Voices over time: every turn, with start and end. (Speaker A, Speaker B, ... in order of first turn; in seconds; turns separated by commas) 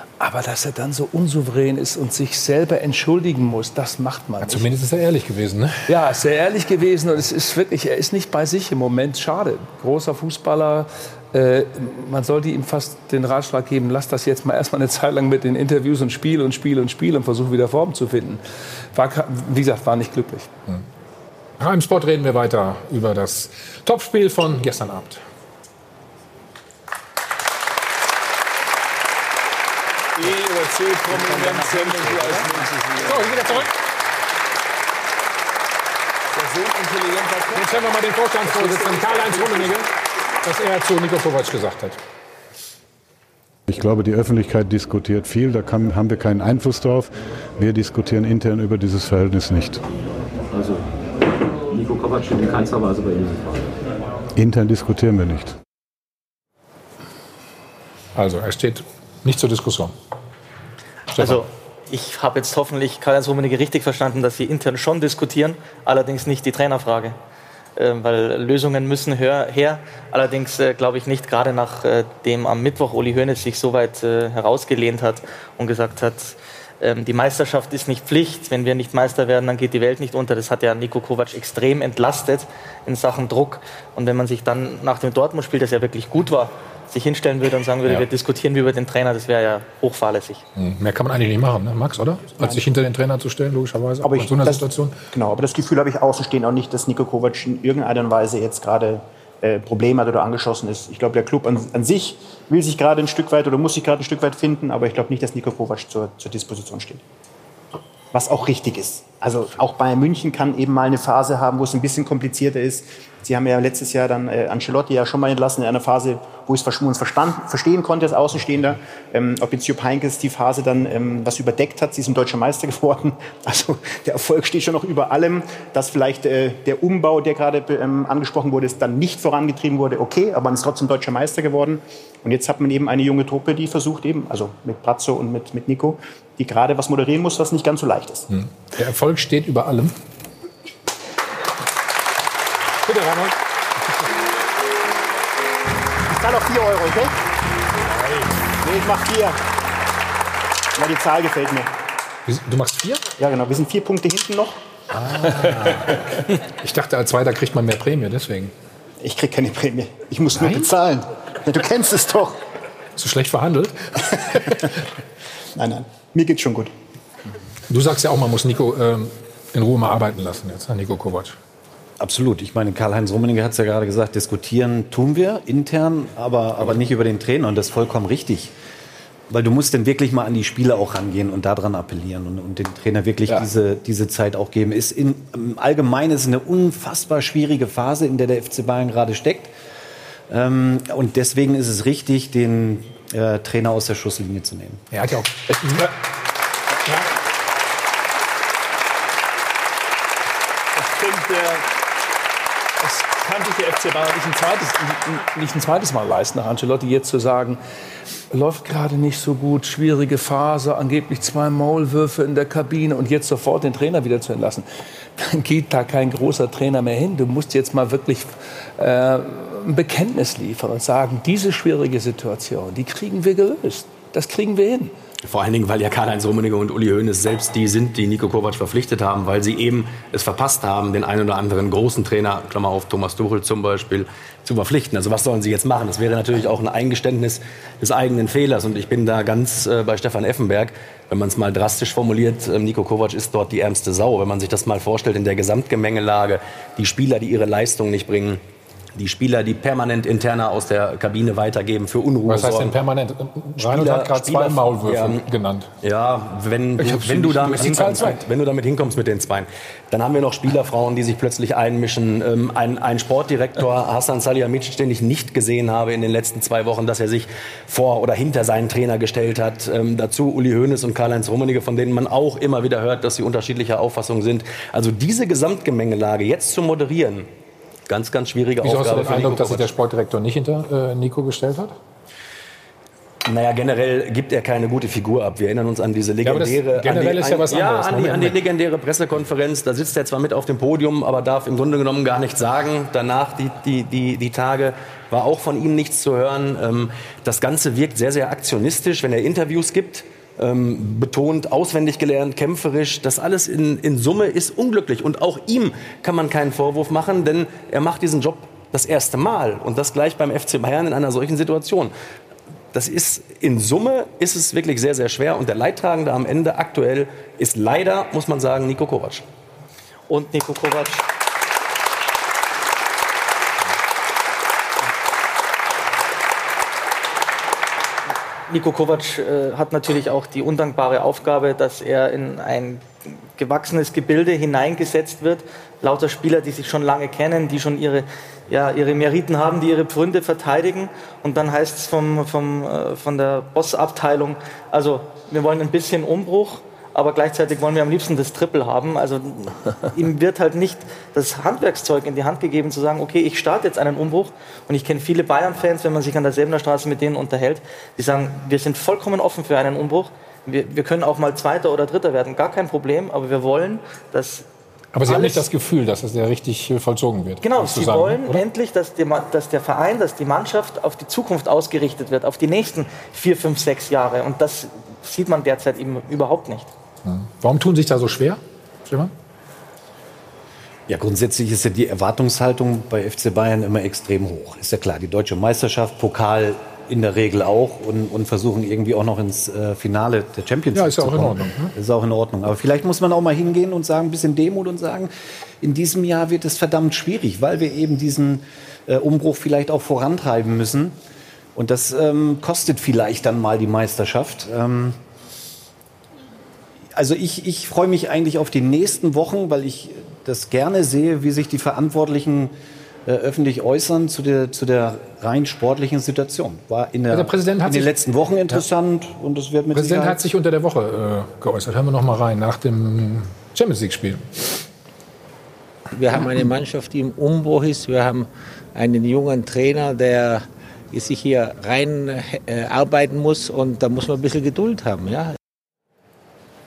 Speaker A: 0.2-4.7, Speaker B: 4.4-5.9, Speaker A: 5.9-18.4, Speaker A: 18.9-20.5, Speaker B: 21.6-25.2, Speaker A: 30.2-33.4, Speaker B: 33.0-33.7, Speaker A: 36.4-37.7, Speaker B: 37.5-39.9, Speaker A: 38.4-39.7, Speaker B: 40.4-42.0, Speaker C: 43.7-49.8, Speaker D: 50.5-50.8, Speaker D: 51.7-53.6, Speaker C: 54.3-55.5, Speaker B: 58.1-59.9, Speaker B: 61.1-61.4, Speaker E: 61.2-67.2, Speaker E: 67.8-90.4, Speaker B: 90.6-95.0, Speaker F: 94.0-107.0, Speaker F: 108.1-138.3, Speaker B: 138.3-139.9, Speaker B: 142.8-143.3, Speaker F: 146.1-147.1, Speaker B: 147.9-148.3, Speaker F: 148.6-149.4, Speaker F: 150.8-151.7, Speaker B: 152.2-153.0, Speaker F: 153.2-154.6, Speaker B: 155.0-155.9, Speaker B: 156.6-158.5, Speaker F: 159.0-162.4, Speaker B: 160.3-160.7, Speaker B: 162.9-164.7, Speaker F: 165.6-166.7, Speaker B: 167.7-171.3, Speaker G: 172.0-178.5, Speaker G: 179.3-189.5, Speaker G: 190.3-194.8, Speaker B: 194.9-195.9, Speaker A: 200.8-201.6, Speaker A: 202.8-207.6, Speaker A: 208.3-224.9, Speaker H: 225.2-248.4, Speaker H: 248.9-252.8, Speaker B: 252.2-255.7, Speaker H: 253.6-255.2, Speaker H: 255.8-277.3, Speaker B: 256.8-258.2, Speaker H: 277.9-279.7, Speaker B: 278.6-281.8, Speaker H: 283.2-311.9, Speaker B: 286.2-288.4, Speaker H: 312.7-319.2, Speaker E: 320.1-321.0, Speaker E: 328.5-364.4, Speaker B: 364.9-368.4, Speaker E: 365.1-365.4, Speaker E: 367.4-376.7, Speaker B: 377.0-379.1, Speaker G: 380.9-400.9, Speaker B: 390.7-391.7, Speaker G: 401.5-405.0, Speaker G: 406.9-412.5, Speaker G: 413.1-420.2, Speaker B: 417.1-417.9, Speaker B: 419.7-424.2, Speaker I: 425.9-435.3